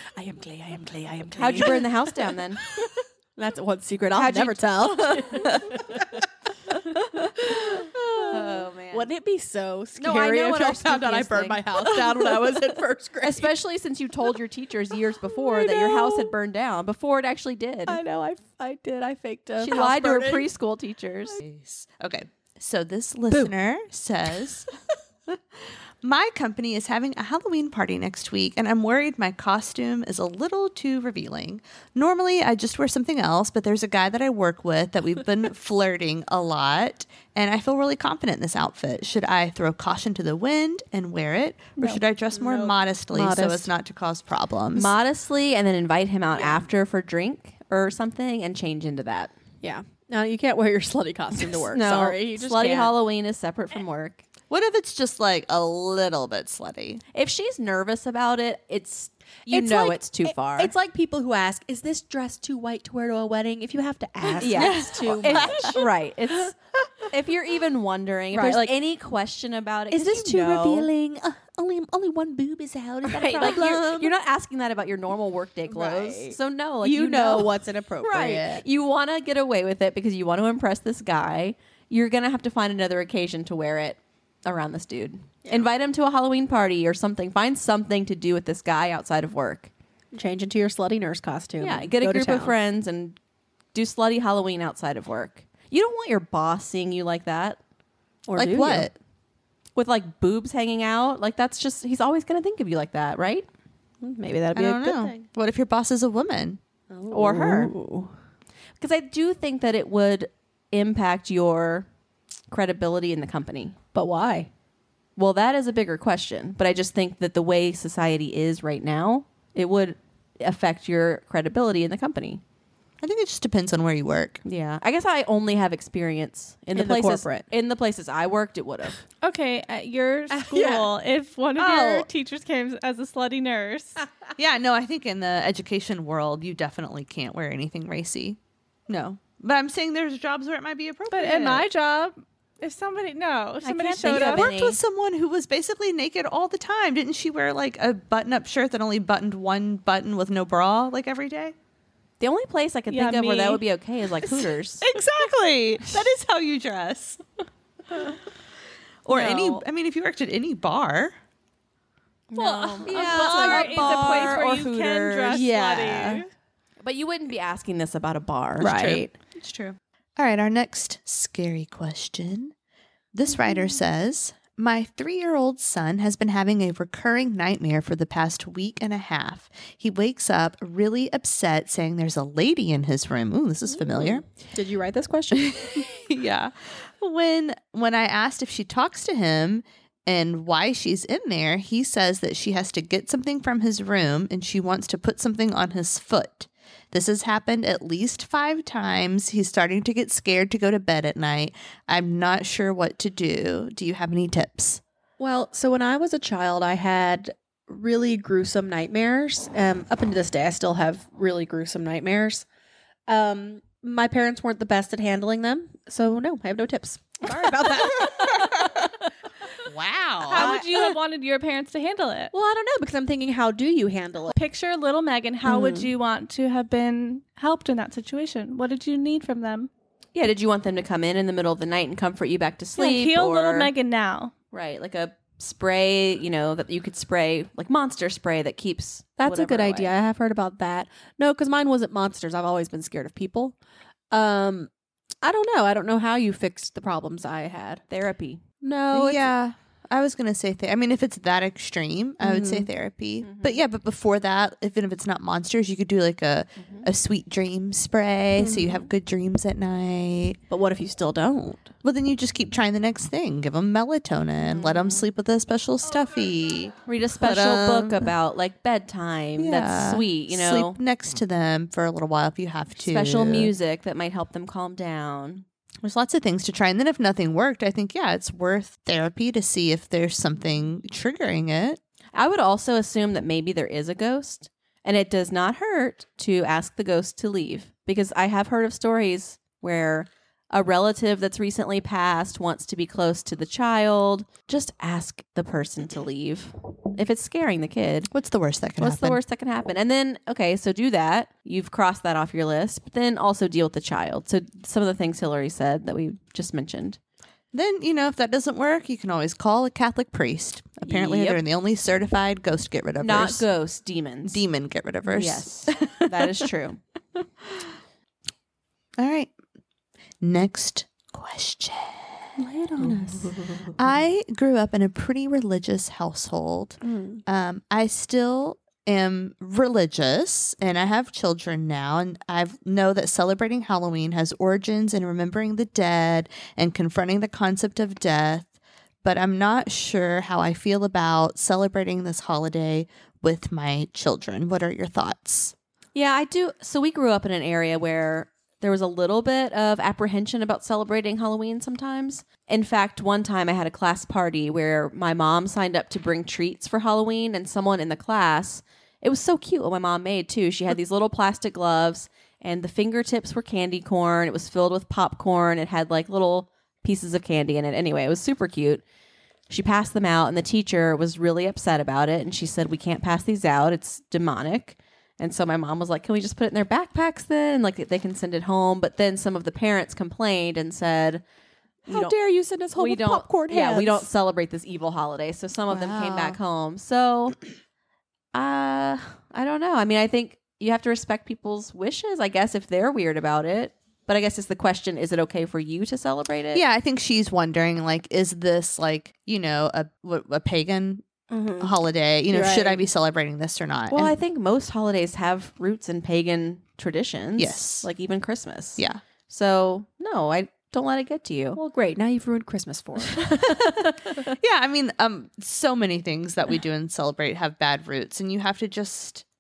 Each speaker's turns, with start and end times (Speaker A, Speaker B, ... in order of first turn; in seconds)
Speaker A: 0.1-2.1, 2.8-13.6, 15.2-16.3, 17.9-20.5, 42.3-43.7, 46.4-46.6, 49.6-53.0, 59.5-65.8, 68.3-68.8, 69.9-74.1, 75.7-78.7, 90.1-92.5, 98.3-98.9, 104.0-105.2, 106.9-108.1, 113.9-114.5, 126.7-127.5, 130.3-130.9, 131.6-132.1, 165.3-166.2, 168.6-169.1, 184.5-185.8, 205.2-212.4, 213.1-218.9, 220.3-221.0, 222.3-224.4, 225.5-225.9, 239.2-243.6, 244.1-244.7, 245.2-247.8, 248.6-249.3, 252.2-252.7, 258.4-258.9, 260.5-261.7, 322.4-323.7, 326.8-327.2, 381.9-384.1, 401.3-401.7, 402.3-402.8, 411.5-414.3
Speaker B: 1.4-2.6, 4.2-5.6, 8.3-9.1, 10.0-11.7, 13.2-18.0, 19.6-21.4, 44.7-49.3, 51.7-54.2, 57.1-60.7, 64.4-66.5, 67.1-70.9, 73.0-89.7, 91.6-93.2, 93.7-97.6, 99.8-103.5, 107.1-107.7, 108.8-111.9, 112.5-113.8, 115.2-122.4, 124.4-129.0, 143.6-144.8, 152.2-154.9, 159.2-159.6, 162.3-165.3, 166.8-168.8, 230.2-233.7, 234.5-239.9, 247.9-248.4, 253.2-253.6, 256.6-256.9, 264.4-265.1, 266.9-270.8, 272.8-275.4, 282.1-298.1, 298.8-307.0, 310.9-311.4, 313.0-314.4, 315.1-316.8, 345.9-368.8, 369.5-381.2, 381.9-382.2, 382.8-387.4, 388.3-396.6, 403.9-411.6, 413.3-413.5
Speaker C: 11.9-12.5, 21.4-24.7, 25.3-44.9, 54.5-57.0, 64.5-65.8, 73.3-73.7, 98.3-99.0, 104.5-106.6, 123.0-124.4, 134.4-141.7, 144.0-151.6, 154.3-157.2, 159.1-161.2, 162.9-165.4, 168.6-172.5, 173.1-184.2, 185.3-204.8, 219.6-220.5, 248.9-260.4, 261.8-268.1, 269.4-273.5, 275.8-281.8, 298.1-299.2, 307.5-313.5, 314.2-316.3, 319.0-319.3, 320.2-322.4, 323.7-345.5, 385.7-386.4, 396.5-401.1, 401.6-404.1, 407.4-407.9, 414.4-419.2
Speaker D: 129.2-134.0, 141.1-144.5, 152.9-153.6, 162.4-166.3, 220.2-222.3, 224.3-229.7, 232.8-234.3